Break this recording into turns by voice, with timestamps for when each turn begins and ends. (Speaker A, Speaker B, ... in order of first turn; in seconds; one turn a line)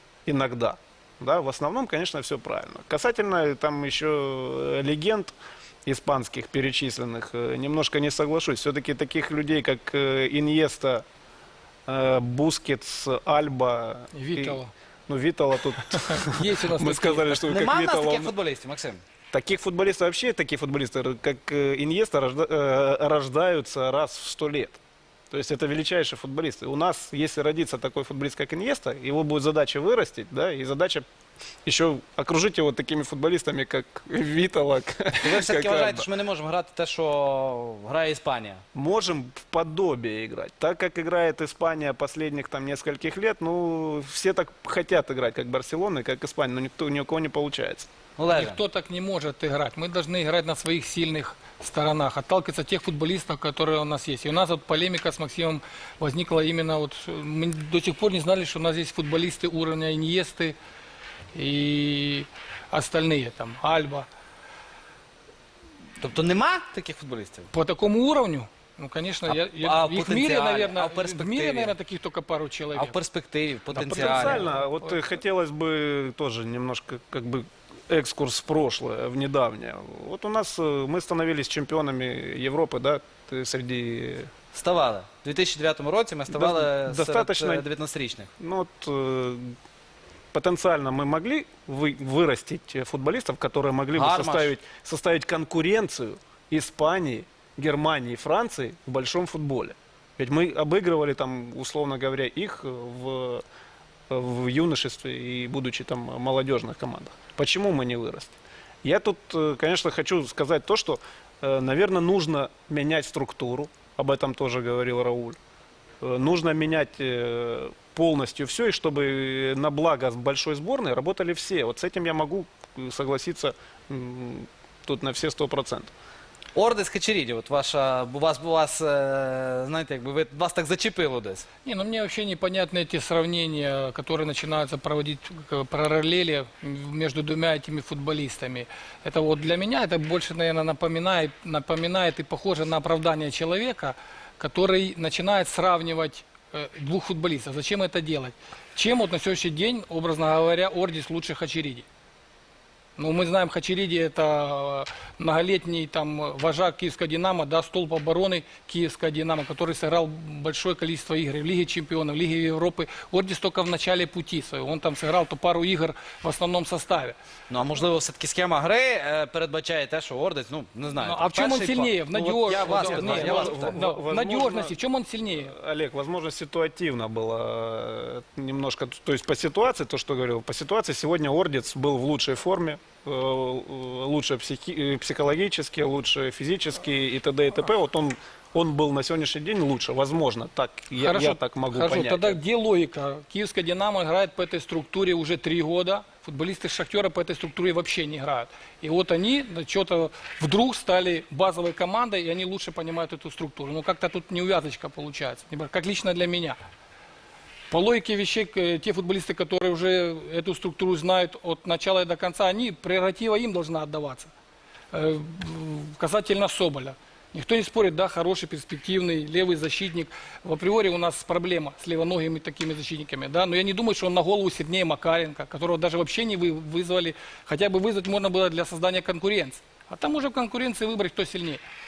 Speaker A: 0.2-5.3
Speaker A: 5.8-11.0
Speaker A: 11.9-18.4
Speaker B: 14.1-14.7
Speaker B: 15.8-17.6
Speaker C: 17.5-19.0
Speaker A: 19.3-24.8
Speaker A: 25.3-31.1
Speaker A: 31.6-36.1
Speaker C: 35.2-38.6
Speaker A: 38.7-47.9
Speaker C: 48.2-48.6
Speaker B: 48.2-60.5
Speaker B: 61.3-64.1
Speaker C: 66.0-67.5
Speaker B: 67.5-73.0
Speaker C: 69.2-71.7
Speaker C: 72.7-74.4
Speaker B: 73.7-75.1
Speaker A: 73.8-84.3
Speaker C: 84.5-88.3
Speaker A: 86.3-87.7
Speaker A: 88.4-89.5
Speaker A: 90.3-103.4
Speaker C: 93.9-94.6
Speaker A: 104.1-115.4
Speaker A: 116.0-125.9
Speaker C: 126.5-131.4
Speaker B: 131.6-151.8
Speaker B: 153.0-167.2
Speaker C: 167.5-173.9
Speaker B: 170.9-175.5
Speaker A: 172.6-192.4
Speaker B: 190.9-206.6
Speaker B: 207.7-214.3
Speaker B: 214.9-231.6